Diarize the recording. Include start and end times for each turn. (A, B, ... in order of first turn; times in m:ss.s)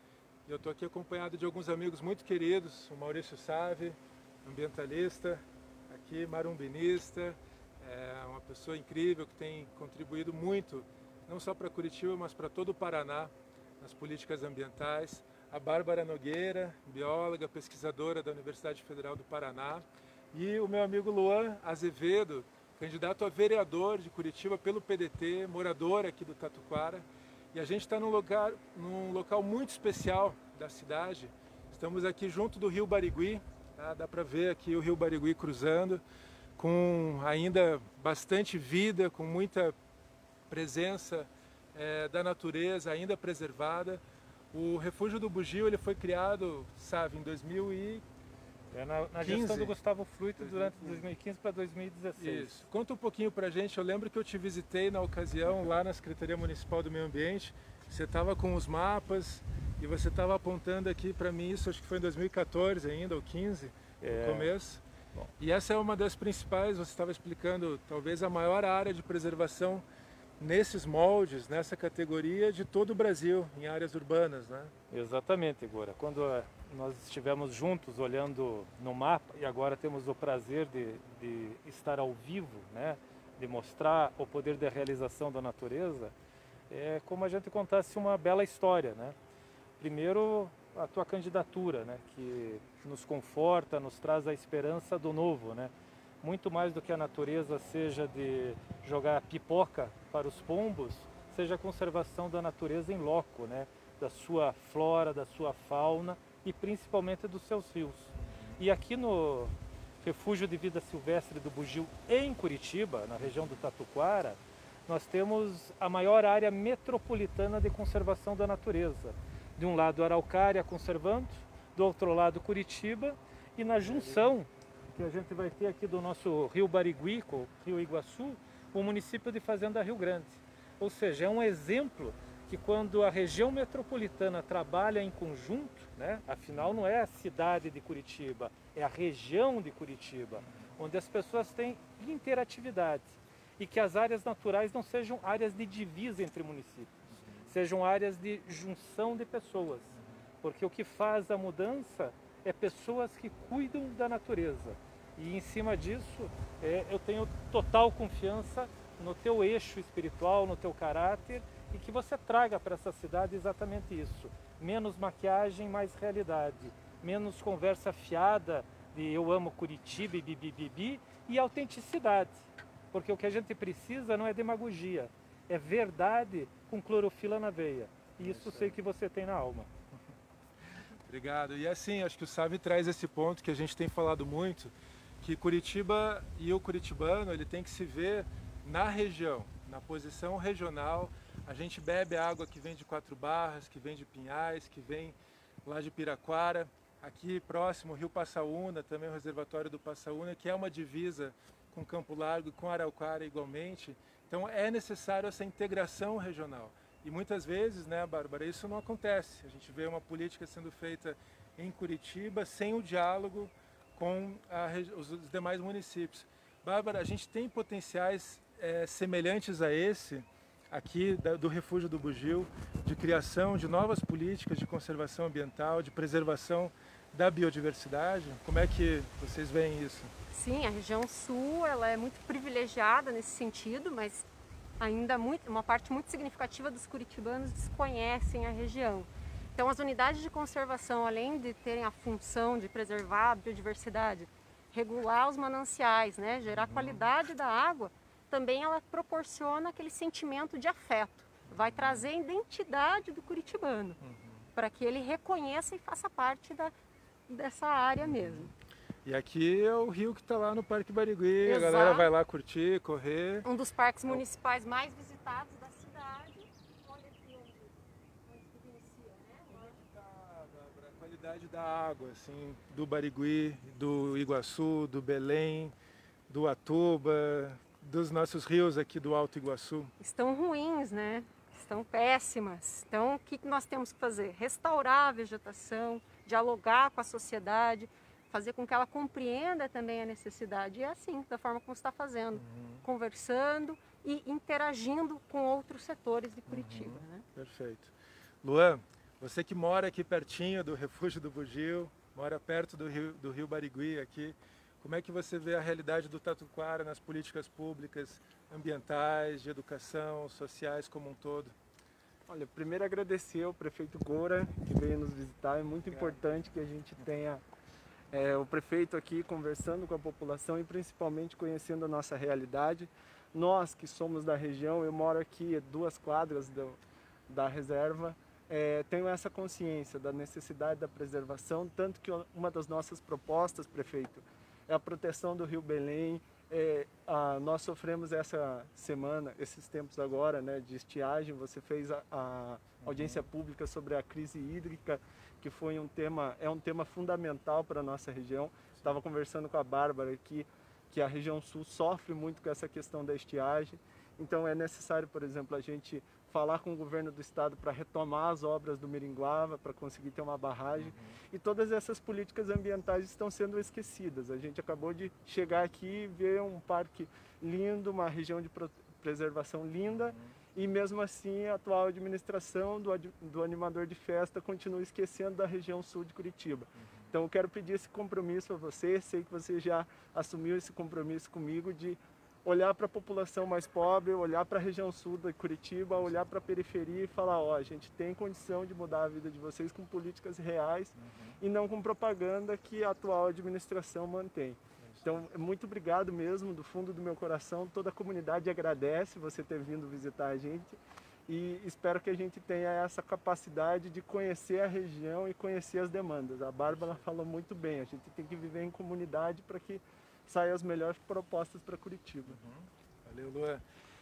0:00.4-0:36.0 A
0:36.6-0:39.8 A
0:40.5-0:44.0 A
0:44.5-0:48.0 A
0:48.7-0:52.5 B
0:49.2-0:49.8 A
0:50.4-0:51.0 A
0:52.2-1:04.8 A
1:04.0-1:04.5 B
1:05.4-1:09.8 A
1:10.4-1:14.7 A
1:14.9-1:26.1 B
1:26.7-1:29.2 B
1:29.8-2:26.9 B
1:48.2-1:48.6 A
2:27.1-2:27.4 A
2:27.5-2:59.7 B
2:58.2-2:58.8 A
3:01.0-3:50.1 A
3:50.3-3:54.2 C
3:54.8-4:14.0 C
4:06.5-4:07.1 A
4:11.5-4:12.0 A
4:14.0-4:14.5 A
4:14.5-4:16.7 C
4:17.3-4:18.5 C
4:18.0-4:18.5 A
4:19.0-4:23.5 A
4:21.4-4:22.1 C
4:23.4-4:29.7 C
4:29.5-4:35.7 A
4:36.3-4:39.9 A
4:40.0-4:57.2 C
4:52.4-4:52.8 A
4:56.5-5:11.6 A
5:12.3-5:17.4 D
5:18.1-6:52.4 D
5:42.8-5:43.3 A
6:00.8-6:01.2 A
6:09.9-6:10.4 A
6:16.8-6:17.1 A
6:31.0-6:31.4 A
6:34.8-6:35.2 A
6:46.7-6:47.0 A
6:52.3-6:53.6 A